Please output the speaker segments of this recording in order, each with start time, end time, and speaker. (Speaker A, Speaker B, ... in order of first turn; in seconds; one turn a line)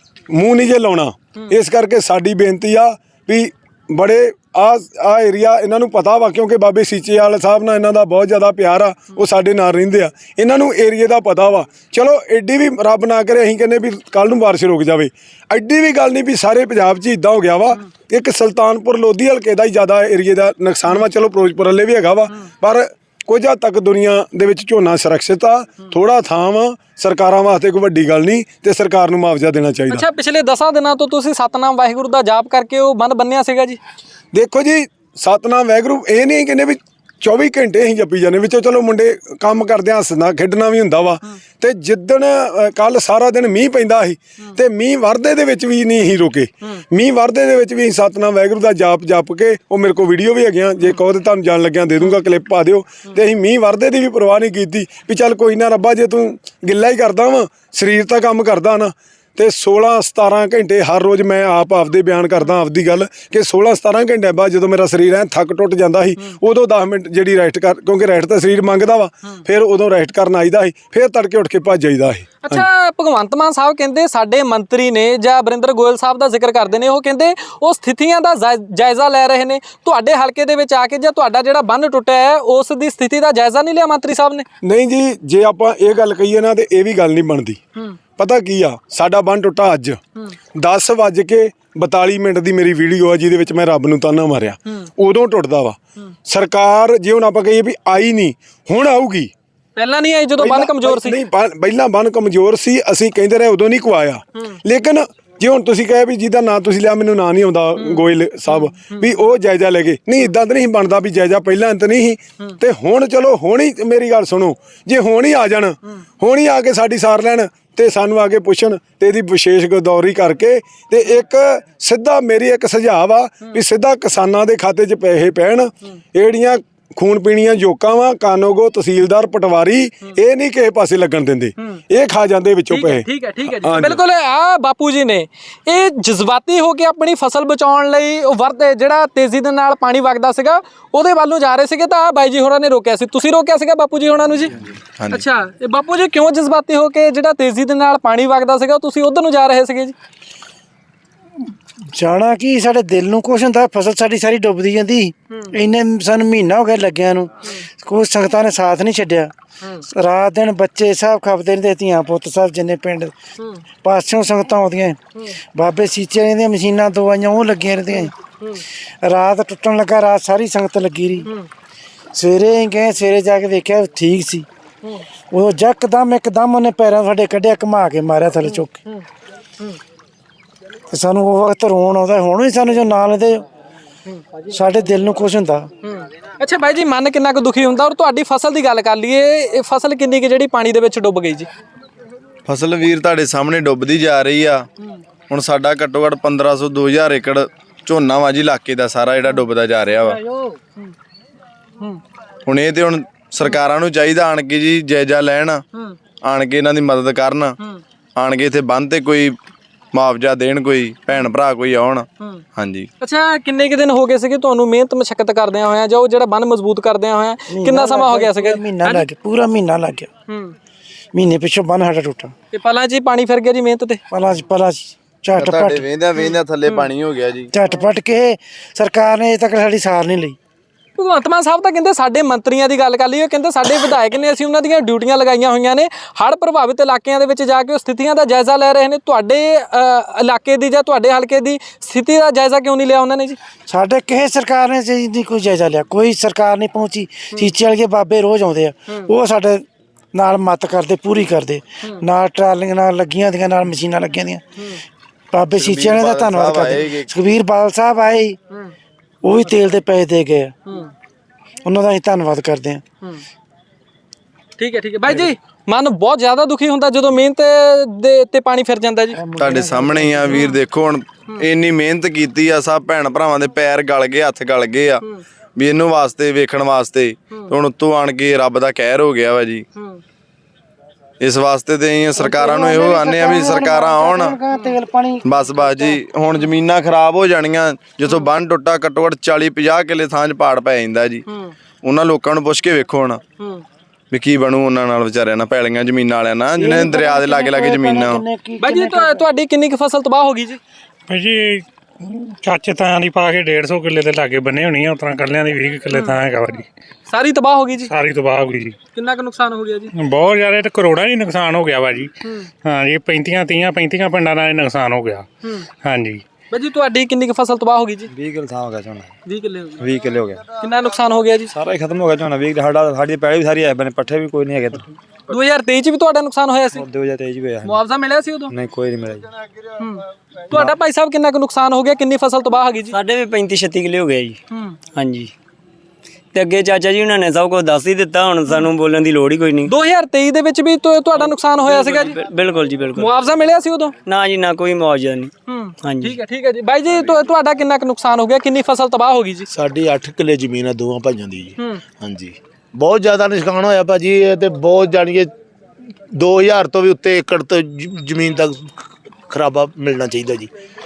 Speaker A: 0.3-30.1
Speaker B: 29.9-33.8
Speaker A: 34.3-72.7
Speaker B: 72.4-84.5
Speaker A: 84.6-87.6
Speaker A: 88.2-90.0
Speaker A: 90.6-99.3
Speaker B: 99.8-101.2
Speaker A: 100.4-134.0
Speaker B: 107.8-108.9
Speaker B: 132.7-144.5
Speaker C: 145.0-145.2
Speaker B: 145.1-149.9
Speaker D: 151.9-157.3
Speaker D: 157.8-159.3
Speaker D: 159.9-163.1
Speaker D: 163.8-165.0
Speaker D: 165.5-168.1
Speaker B: 167.9-168.6
Speaker D: 169.0-171.3
Speaker D: 172.1-174.4
Speaker D: 175.3-178.8
Speaker D: 180.9-183.4
Speaker D: 184.5-185.7
Speaker B: 185.8-191.5
Speaker C: 192.4-194.7
Speaker C: 195.3-200.2
Speaker C: 202.4-205.6
Speaker C: 206.2-207.6
Speaker C: 208.2-209.3
Speaker C: 209.9-212.9
Speaker B: 213.0-219.1
Speaker D: 217.5-220.1
Speaker B: 220.3-220.5
Speaker D: 221.1-222.3
Speaker B: 222.5-224.0
Speaker D: 224.1-225.9
Speaker C: 225.3-227.5
Speaker B: 226.2-226.9
Speaker D: 227.5-230.3
Speaker B: 230.9-243.4
Speaker D: 243.7-254.4
Speaker D: 255.3-258.4
Speaker C: 255.6-257.1
Speaker D: 259.2-260.5
Speaker D: 261.6-262.8
Speaker B: 264.6-269.2
Speaker D: 269.1-270.3
Speaker C: 269.4-275.0
Speaker B: 270.3-270.6
Speaker C: 275.6-279.6
Speaker C: 281.2-284.4
Speaker D: 282.2-286.0
Speaker B: 284.5-284.8
Speaker C: 285.2-291.2
Speaker C: 291.8-293.2
Speaker C: 294.1-298.2
Speaker D: 296.6-299.3
Speaker B: 298.6-300.6
Speaker E: 301.1-301.6
Speaker E: 302.4-306.6
Speaker B: 305.9-306.2
Speaker B: 307.1-307.9
Speaker E: 307.9-308.8
Speaker B: 308.9-309.9
Speaker E: 309.9-312.1
Speaker E: 312.6-315.3
Speaker E: 315.8-316.2
Speaker B: 316.5-318.1
Speaker F: 318.1-319.1
Speaker B: 319.2-319.8
Speaker F: 319.8-320.4
Speaker B: 320.6-321.5
Speaker F: 321.5-324.9
Speaker B: 325.3-326.8
Speaker F: 326.7-327.8
Speaker B: 327.6-328.5
Speaker F: 328.5-329.3
Speaker B: 329.8-332.9
Speaker G: 332.9-334.4
Speaker B: 334.5-334.8
Speaker G: 334.9-335.3
Speaker G: 336.3-339.7
Speaker B: 339.7-342.2
Speaker G: 341.6-343.1
Speaker B: 342.9-343.9
Speaker G: 344.0-345.3
Speaker B: 345.5-349.5
Speaker G: 345.8-346.2
Speaker H: 349.5-355.3
Speaker H: 356.1-360.5